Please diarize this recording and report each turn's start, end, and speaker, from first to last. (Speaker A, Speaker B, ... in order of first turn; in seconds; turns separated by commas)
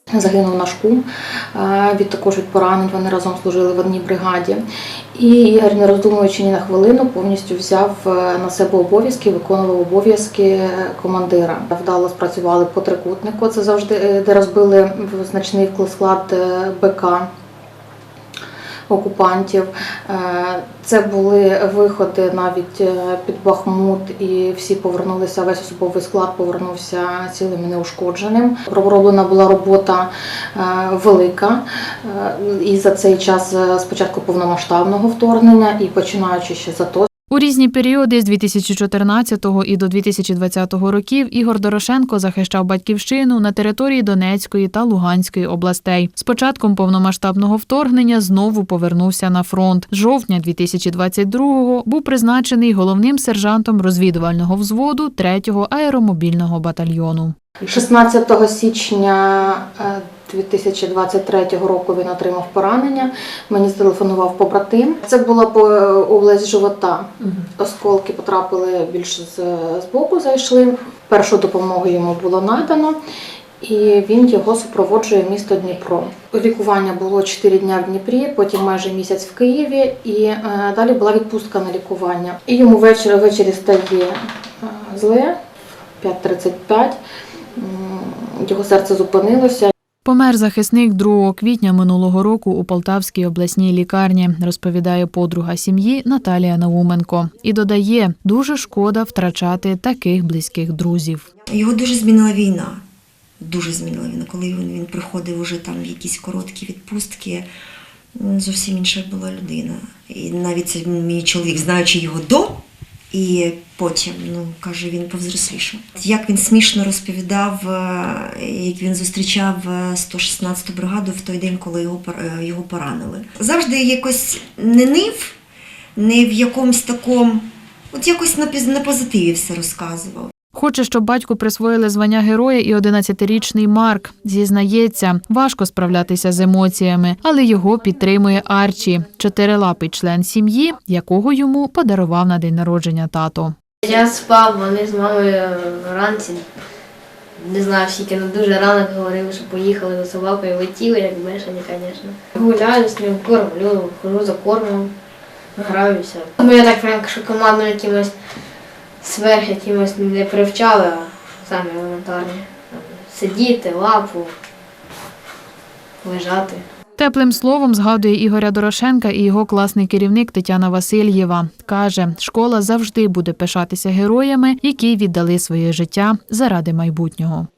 Speaker A: 0.1-4.6, Speaker A: 5.2-17.3, Speaker A: 18.9-37.1, Speaker B: 37.3-57.3, Speaker A: 57.7-73.0, Speaker A: 73.6-85.3, Speaker A: 86.0-87.0, Speaker A: 87.6-89.7, Speaker B: 90.0-101.2, Speaker C: 101.5-102.8, Speaker C: 103.4-107.5, Speaker C: 108.2-125.4, Speaker C: 126.0-130.3, Speaker B: 130.5-143.6, Speaker D: 143.8-146.5, Speaker D: 147.4-154.9, Speaker D: 155.6-158.1, Speaker D: 159.0-164.3, Speaker D: 166.0-166.7, Speaker B: 167.0-177.5